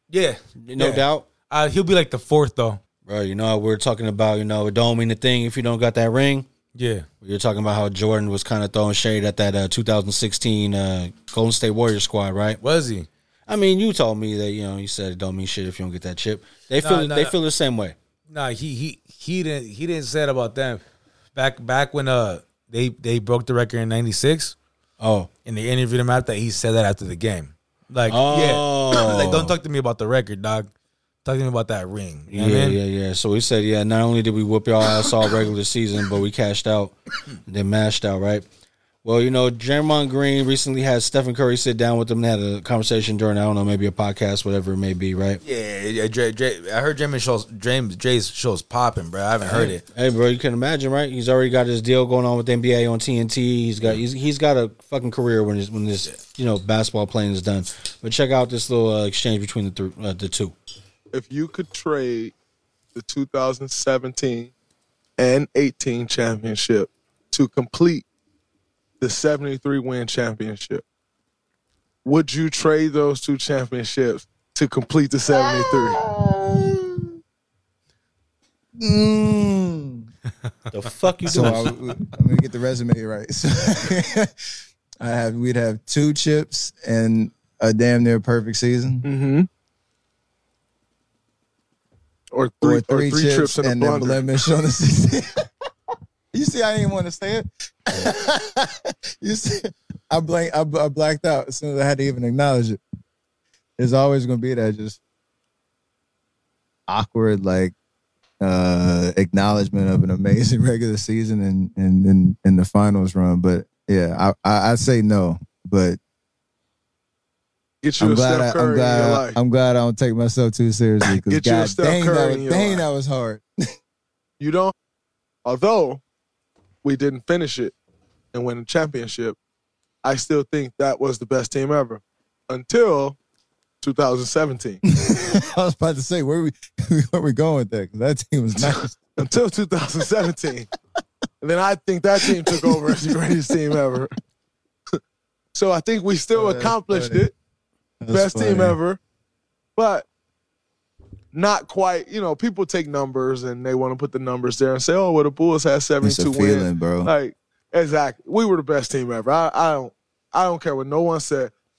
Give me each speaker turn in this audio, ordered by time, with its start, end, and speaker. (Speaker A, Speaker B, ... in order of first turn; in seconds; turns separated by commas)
Speaker A: 0.1-2.8, Speaker B: 0.6-1.3, Speaker B: 3.0-6.5, Speaker A: 6.7-7.0, Speaker B: 7.2-12.6, Speaker A: 12.6-13.1, Speaker B: 13.5-17.9, Speaker A: 16.8-17.3, Speaker A: 18.3-20.8, Speaker A: 21.3-24.5, Speaker B: 25.0-25.3, Speaker A: 25.4-30.7, Speaker B: 28.1-29.5, Speaker A: 31.2-32.8, Speaker B: 32.3-36.9, Speaker B: 37.5-38.5, Speaker B: 39.0-45.4, Speaker A: 45.4-49.8, Speaker B: 49.4-60.5, Speaker C: 61.1-62.3, Speaker C: 62.9-64.5, Speaker C: 65.2-68.0, Speaker C: 69.0-70.8, Speaker C: 72.0-76.0, Speaker B: 78.8-80.0, Speaker B: 80.7-81.7, Speaker D: 81.3-84.3, Speaker D: 85.0-89.0, Speaker C: 89.0-89.5, Speaker C: 92.3-94.2, Speaker D: 92.6-95.3, Speaker D: 96.3-102.8, Speaker D: 103.8-105.0, Speaker D: 106.9-107.7, Speaker D: 108.4-116.0, Speaker C: 117.8-119.4, Speaker D: 118.0-123.4, Speaker C: 121.0-122.8, Speaker C: 124.4-124.7, Speaker C: 125.4-126.0, Speaker C: 126.8-127.7, Speaker C: 128.3-129.3, Speaker C: 130.0-133.2, Speaker C: 133.8-134.8, Speaker D: 134.9-138.9, Speaker C: 138.6-140.7, Speaker C: 141.4-144.1, Speaker D: 142.2-143.1, Speaker C: 145.5-147.3, Speaker D: 146.3-147.3, Speaker D: 148.0-148.8, Speaker C: 148.1-149.0, Speaker C: 149.8-150.1, Speaker C: 151.3-161.5, Speaker D: 156.0-157.1